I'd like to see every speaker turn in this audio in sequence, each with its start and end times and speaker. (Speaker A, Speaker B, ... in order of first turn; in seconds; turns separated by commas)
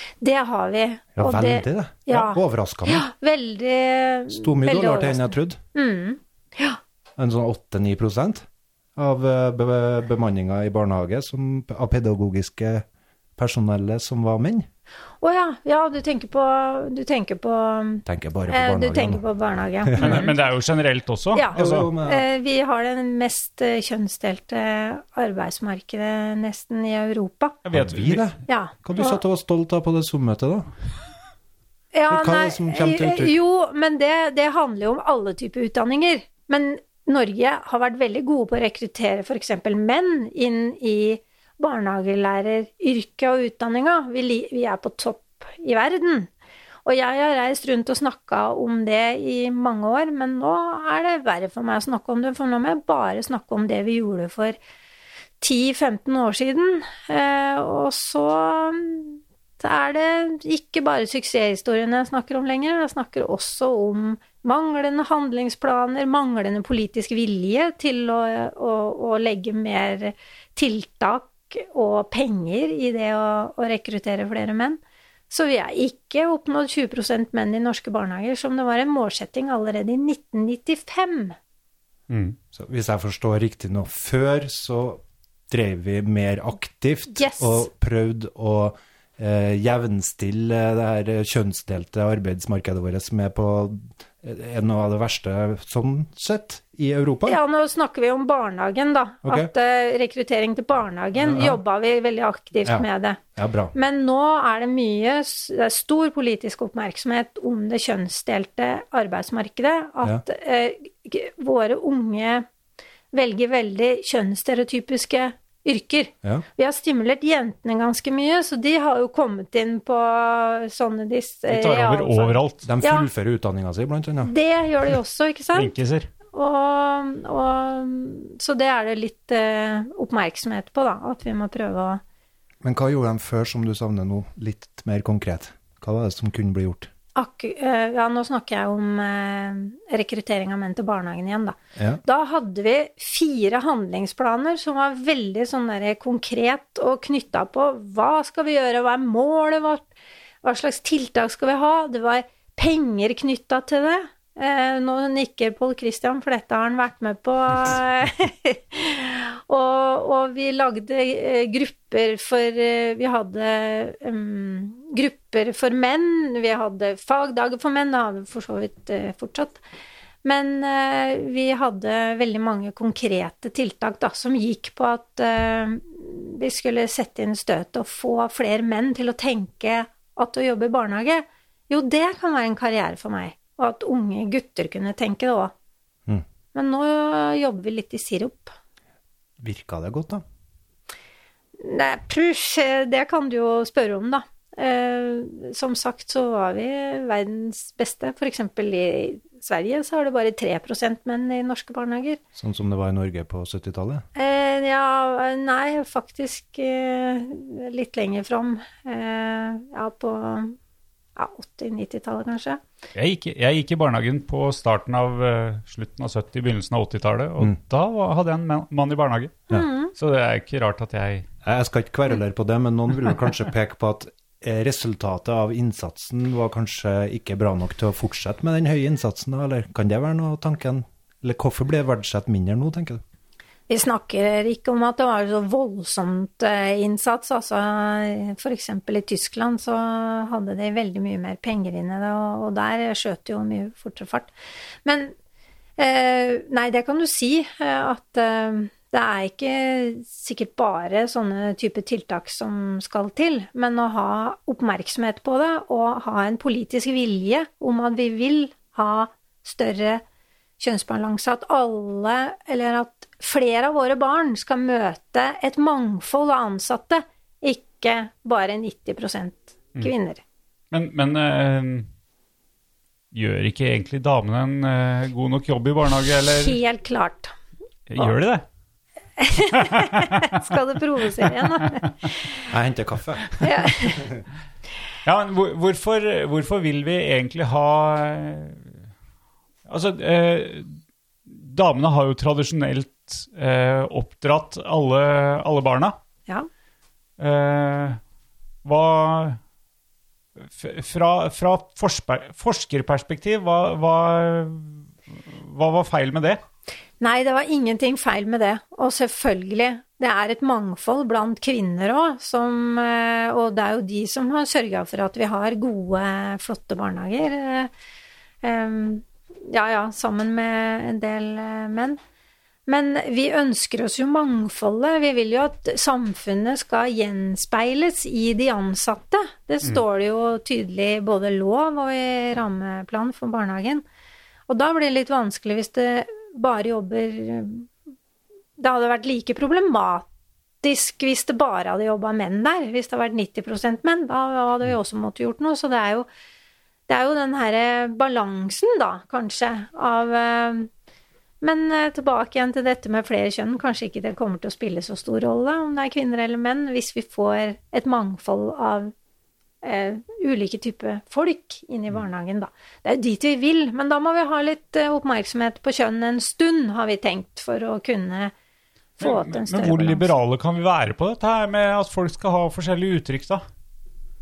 Speaker A: 0.2-6.8, Speaker B: 1.2-3.1, Speaker B: 4.3-5.6, Speaker B: 7.2-12.8, Speaker B: 13.4-14.7, Speaker A: 15.2-20.3, Speaker B: 18.1-19.2, Speaker B: 19.9-20.2, Speaker C: 20.0-21.9, Speaker A: 21.3-27.6, Speaker B: 21.5-22.2, Speaker C: 27.7-28.3, Speaker B: 27.7-30.7, Speaker A: 28.5-29.2, Speaker A: 31.9-46.3, Speaker B: 32.1-33.4, Speaker A: 46.9-54.6, Speaker A: 55.4-81.4, Speaker C: 82.1-82.4, Speaker B: 82.5-97.4, Speaker A: 87.1-87.7, Speaker A: 97.3-103.2, Speaker B: 99.2-99.5, Speaker B: 101.2-101.6, Speaker B: 102.7-103.7, Speaker A: 103.8-112.5, Speaker A: 113.1-123.1, Speaker C: 121.5-122.7, Speaker B: 122.7-124.3, Speaker A: 124.2-125.7, Speaker C: 125.5-126.1, Speaker A: 126.3-132.0, Speaker B: 132.6-136.9, Speaker A: 137.2-149.9, Speaker A: 150.4-169.6, Speaker A: 170.2-185.5, Speaker A: 186.5-188.6, Speaker B: 189.4-190.2, Speaker A: 191.6-202.2, Speaker B: 202.3-204.0, Speaker A: 204.2-210.6, Speaker A: 211.2-212.6, Speaker C: 212.9-219.4, Speaker A: 219.5-219.9, Speaker C: 219.9-221.3, Speaker B: 221.4-233.0, Speaker A: 233.7-244.3, Speaker A: 244.8-245.1, Speaker A: 245.8-260.0, Speaker A: 260.6-270.2, Speaker C: 270.7-271.9, Speaker C: 273.1-276.6, Speaker A: 276.3-277.3, Speaker C: 277.9-278.4, Speaker A: 279.2-282.0, Speaker C: 279.6-280.4, Speaker B: 282.5-284.2, Speaker A: 283.4-284.1, Speaker C: 285.1-288.8, Speaker C: 289.7-290.8, Speaker C: 291.3-296.0, Speaker C: 297.2-298.0, Speaker C: 298.6-299.4, Speaker C: 300.4-306.4, Speaker A: 307.0-317.7, Speaker A: 318.4-322.0, Speaker A: 322.7-333.8, Speaker A: 334.5-337.7, Speaker A: 338.6-340.1, Speaker A: 340.6-346.1, Speaker A: 346.9-350.7, Speaker A: 351.4-358.9, Speaker A: 359.6-368.3, Speaker A: 369.0-370.1, Speaker C: 369.0-373.4